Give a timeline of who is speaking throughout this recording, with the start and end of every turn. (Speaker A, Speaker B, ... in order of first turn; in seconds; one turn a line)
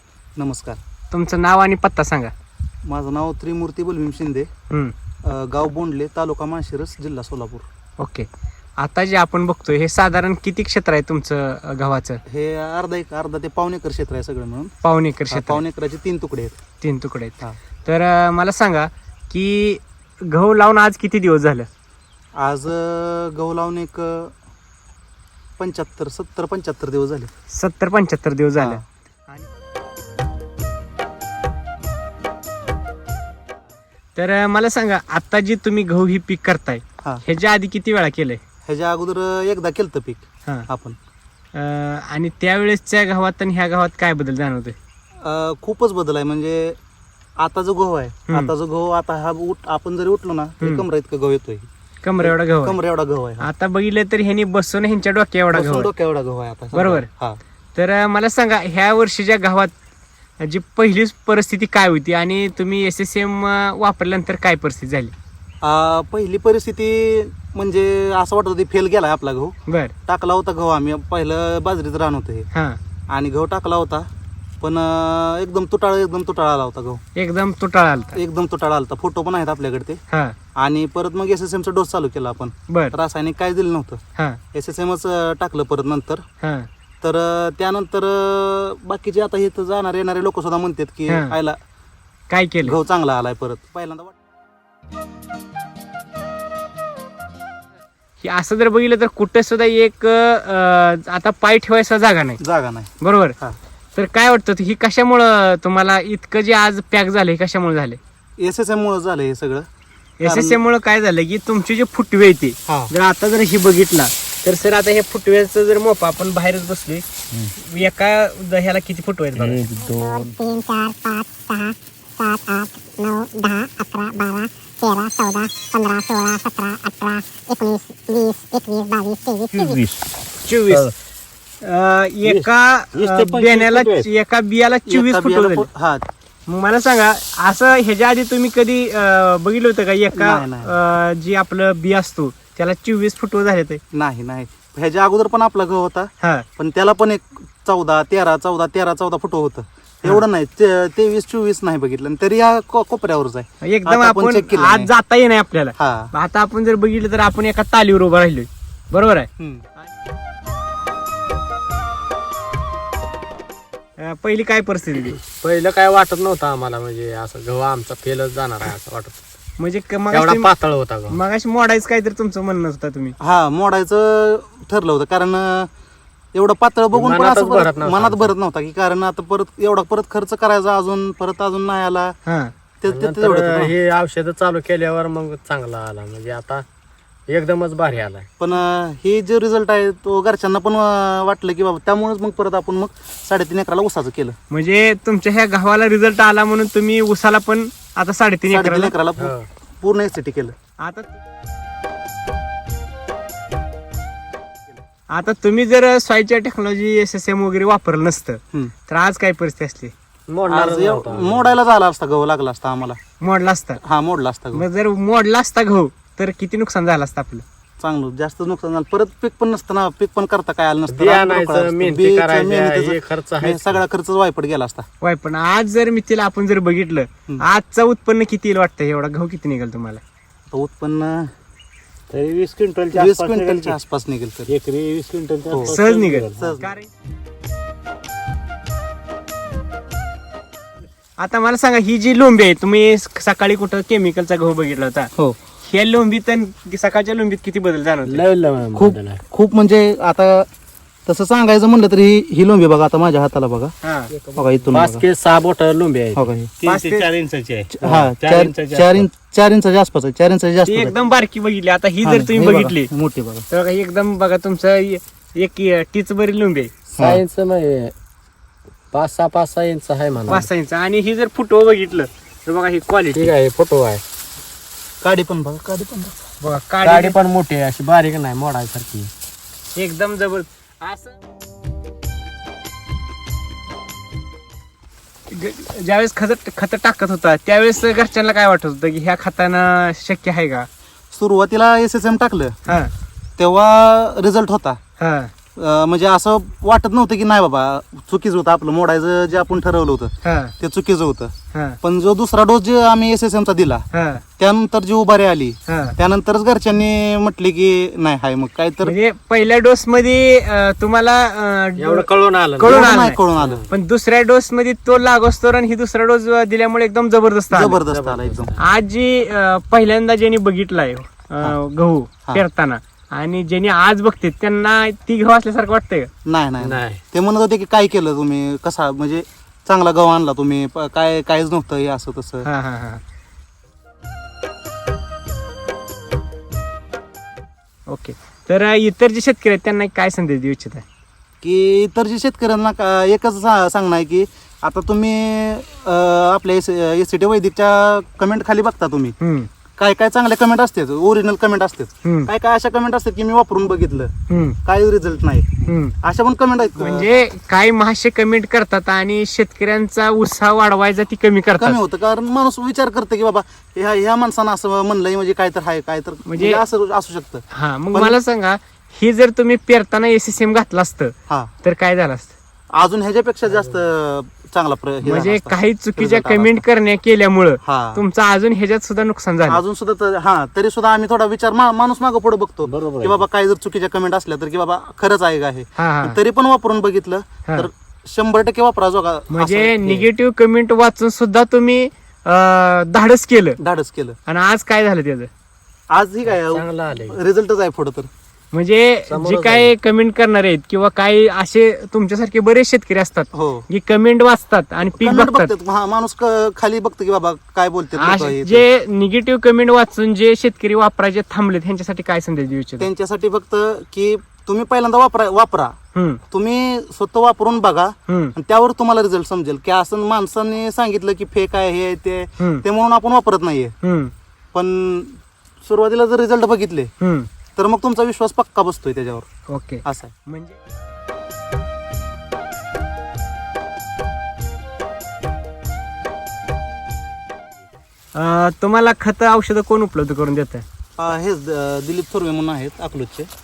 Speaker A: 0.4-0.8
Speaker B: 1.1-2.3
Speaker A: 2.8-4.5
Speaker A: 5.2-7.6
Speaker B: 8.0-8.3
Speaker B: 8.8-12.2
Speaker A: 12.3-14.7
Speaker B: 14.8-15.6
Speaker A: 15.3-16.6
Speaker B: 16.8-21.7
Speaker A: 22.3-24.3
Speaker A: 25.6-27.3
Speaker B: 27.5-29.5
Speaker A: 28.6-28.8
Speaker B: 34.1-38.4
Speaker A: 38.6-41.0
Speaker B: 41.5-44.7
Speaker A: 45.2-46.8
Speaker A: 47.4-51.7
Speaker B: 50.6-50.9
Speaker B: 52.0-52.8
Speaker A: 52.2-53.5
Speaker B: 53.4-55.9
Speaker A: 55.5-57.4
Speaker B: 56.7-57.1
Speaker B: 57.7-59.7
Speaker B: 60.4-65.1
Speaker A: 65.6-72.5
Speaker B: 69.7-69.9
Speaker B: 72.5-72.8
Speaker A: 73.1-74.1
Speaker A: 74.6-77.0
Speaker B: 77.1-78.2
Speaker A: 78.1-80.0
Speaker B: 80.1-80.3
Speaker A: 80.5-84.0
Speaker B: 82.7-83.0
Speaker A: 84.5-86.2
Speaker B: 86.4-86.7
Speaker A: 87.0-91.6
Speaker B: 91.1-91.3
Speaker B: 92.3-92.8
Speaker A: 92.6-94.1
Speaker B: 98.2-102.4
Speaker A: 102.4-103.6
Speaker B: 103.0-103.3
Speaker B: 103.9-108.0
Speaker A: 108.4-109.7
Speaker B: 110.2-117.0
Speaker A: 110.2-110.6
Speaker A: 112.7-112.9
Speaker B: 117.5-119.7
Speaker C: 119.3-120.3
Speaker D: 119.9-129.8
Speaker C: 129.5-130.0
Speaker B: 130.4-130.9
Speaker B: 131.6-135.7
Speaker C: 132.2-134.1
Speaker A: 134.9-136.1
Speaker B: 136.5-143.8
Speaker A: 140.1-140.7
Speaker A: 143.9-154.9
Speaker B: 153.6-159.9
Speaker A: 155.8-156.1
Speaker A: 159.4-159.6
Speaker B: 164.0-165.2
Speaker E: 165.3-169.2
Speaker B: 169.6-170.5
Speaker E: 170.1-171.2
Speaker B: 171.1-173.1
Speaker A: 173.2-175.7
Speaker A: 176.3-182.1
Speaker E: 176.9-178.3
Speaker B: 182.2-182.5
Speaker A: 182.8-183.7
Speaker E: 182.9-186.6
Speaker E: 187.3-188.3
Speaker A: 188.4-194.4
Speaker B: 194.5-198.9
Speaker A: 198.5-200.5
Speaker E: 199.2-199.5
Speaker B: 200.8-201.1
Speaker B: 205.1-209.9
Speaker E: 210.3-211.5
Speaker A: 210.5-213.0
Speaker B: 213.2-213.8
Speaker A: 213.8-214.6
Speaker B: 214.5-217.4
Speaker A: 217.8-224.8
Speaker E: 220.9-223.8
Speaker B: 225.0-230.0
Speaker A: 230.5-231.3
Speaker C: 232.1-233.8
Speaker A: 232.9-234.5
Speaker C: 234.5-236.6
Speaker A: 235.5-235.7
Speaker B: 235.6-236.9
Speaker A: 236.4-236.7
Speaker B: 241.2-245.1
Speaker B: 245.6-248.2
Speaker E: 248.1-249.2
Speaker A: 248.7-250.5
Speaker A: 251.1-253.7
Speaker B: 253.8-254.1
Speaker E: 254.1-256.3
Speaker A: 254.3-255.0
Speaker A: 256.1-256.5
Speaker C: 256.6-259.1
Speaker B: 256.6-257.1
Speaker A: 257.7-260.9
Speaker E: 257.9-258.1
Speaker B: 260.6-262.9
Speaker A: 262.0-263.4
Speaker B: 263.5-266.7
Speaker E: 266.9-267.9
Speaker A: 267.0-267.2
Speaker E: 268.9-270.5
Speaker B: 270.3-273.3
Speaker E: 273.1-274.0
Speaker A: 275.0-276.2
Speaker B: 276.4-277.2
Speaker E: 276.8-279.1
Speaker B: 279.7-281.2
Speaker B: 285.3-290.7
Speaker A: 291.1-292.6
Speaker B: 292.6-292.9
Speaker A: 293.4-294.8
Speaker B: 295.0-295.3
Speaker A: 295.6-303.9
Speaker B: 300.2-300.5
Speaker B: 301.5-301.8
Speaker B: 303.9-304.2
Speaker A: 304.4-308.9
Speaker B: 305.7-305.9
Speaker B: 308.8-317.8
Speaker E: 311.8-313.7
Speaker A: 312.6-313.6
Speaker A: 317.5-318.6
Speaker E: 317.9-318.6
Speaker B: 318.6-326.1
Speaker A: 326.2-332.5
Speaker E: 326.6-327.0
Speaker B: 332.4-333.0
Speaker B: 337.9-340.8
Speaker A: 341.4-349.2
Speaker B: 349.2-349.5
Speaker A: 349.8-354.1
Speaker B: 352.0-352.3
Speaker B: 354.3-354.6
Speaker A: 354.6-357.1
Speaker B: 355.7-355.9
Speaker B: 356.8-361.8
Speaker A: 361.6-368.2
Speaker B: 366.2-366.6
Speaker B: 367.5-372.3
Speaker A: 372.7-376.6
Speaker B: 375.0-379.6
Speaker A: 377.6-378.0
Speaker A: 379.5-390.1
Speaker C: 382.6-383.2
Speaker B: 385.8-386.2
Speaker B: 389.3-393.6
Speaker A: 393.6-394.1
Speaker B: 394.2-395.3
Speaker A: 395.9-398.1
Speaker E: 396.3-397.2
Speaker B: 398.5-405.5
Speaker E: 399.1-399.7
Speaker A: 403.3-403.7
Speaker A: 404.8-408.6
Speaker B: 407.9-412.9
Speaker A: 412.8-415.7
Speaker B: 415.9-416.2
Speaker A: 416.3-423.7
Speaker B: 418.1-418.3
Speaker B: 422.4-422.6
Speaker B: 423.8-424.1
Speaker A: 424.5-426.9
Speaker B: 427.0-427.3
Speaker A: 427.6-429.3
Speaker B: 429.5-430.6
Speaker A: 429.8-430.1
Speaker B: 438.1-440.6
Speaker A: 441.0-443.3